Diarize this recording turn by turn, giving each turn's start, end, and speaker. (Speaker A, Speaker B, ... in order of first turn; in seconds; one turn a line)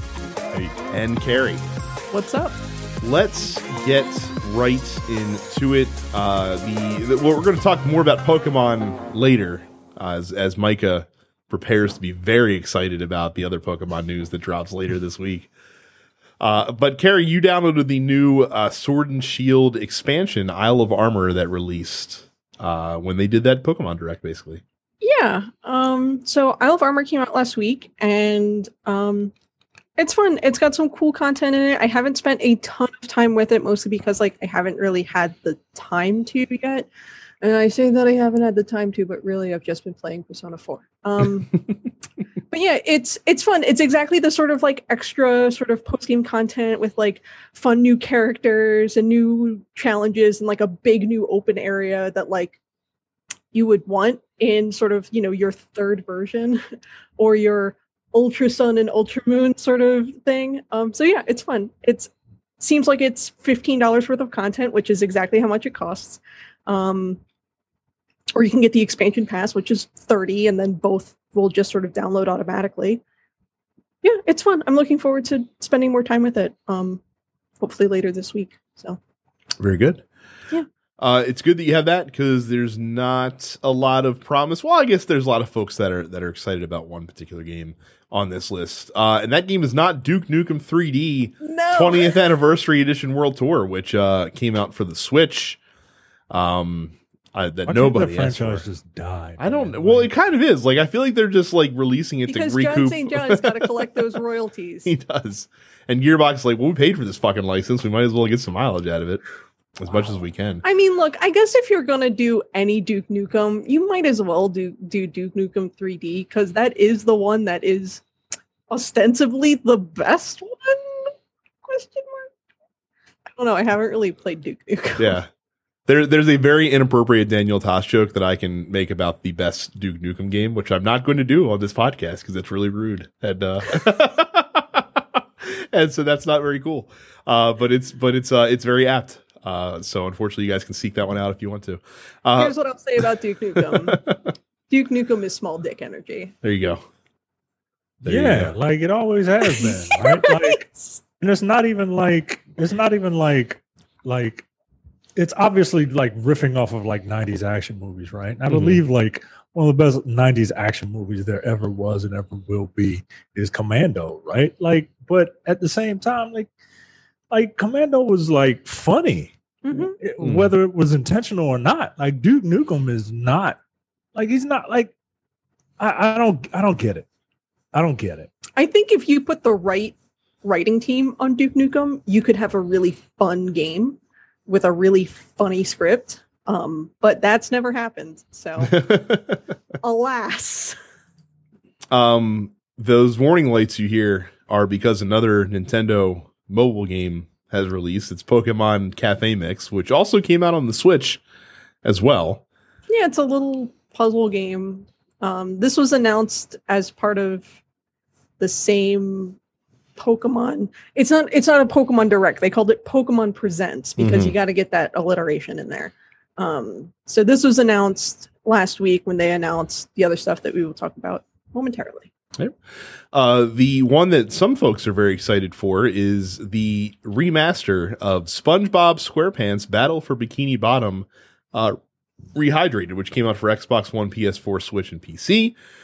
Speaker A: 0.9-1.6
Speaker B: 2.1-2.5
Speaker A: 3.0-15.5
Speaker A: 16.4-24.6
Speaker B: 25.0-29.3
Speaker B: 30.0-36.9
Speaker B: 37.4-41.5
Speaker B: 42.5-52.6
Speaker B: 53.5-56.6
Speaker B: 57.2-67.2
Speaker B: 68.3-73.0
Speaker B: 74.0-77.0
Speaker B: 77.6-79.0
Speaker A: 79.6-80.0
Speaker A: 81.0-95.6
Speaker B: 91.4-92.2
Speaker A: 96.3-98.6
Speaker C: 97.7-100.1
Speaker A: 99.4-104.0
Speaker B: 102.3-104.9
Speaker A: 104.8-109.2
Speaker A: 109.8-110.6
Speaker B: 110.6-118.0
Speaker B: 118.7-121.1
Speaker B: 121.6-122.3
Speaker B: 123.3-125.2
Speaker A: 125.0-125.3
Speaker A: 125.9-144.3
Speaker B: 142.4-144.0
Speaker B: 144.7-146.3
Speaker A: 146.4-146.8
Speaker C: 148.0-150.7
Speaker A: 148.0-148.5
Speaker B: 149.4-151.0
Speaker C: 151.2-154.5
Speaker C: 155.2-166.5
Speaker A: 158.5-158.8
Speaker C: 167.3-173.6
Speaker B: 169.6-169.9
Speaker A: 170.2-170.5
Speaker C: 174.1-174.9
Speaker C: 175.8-177.1
Speaker C: 177.7-178.3
Speaker B: 178.6-188.8
Speaker A: 188.6-189.4
Speaker B: 189.8-190.7
Speaker A: 191.9-201.2
Speaker A: 201.8-202.4
Speaker B: 202.9-207.5
Speaker B: 208.4-209.4
Speaker B: 210.0-222.1
Speaker A: 214.0-214.3
Speaker A: 223.1-231.8
Speaker A: 232.3-235.5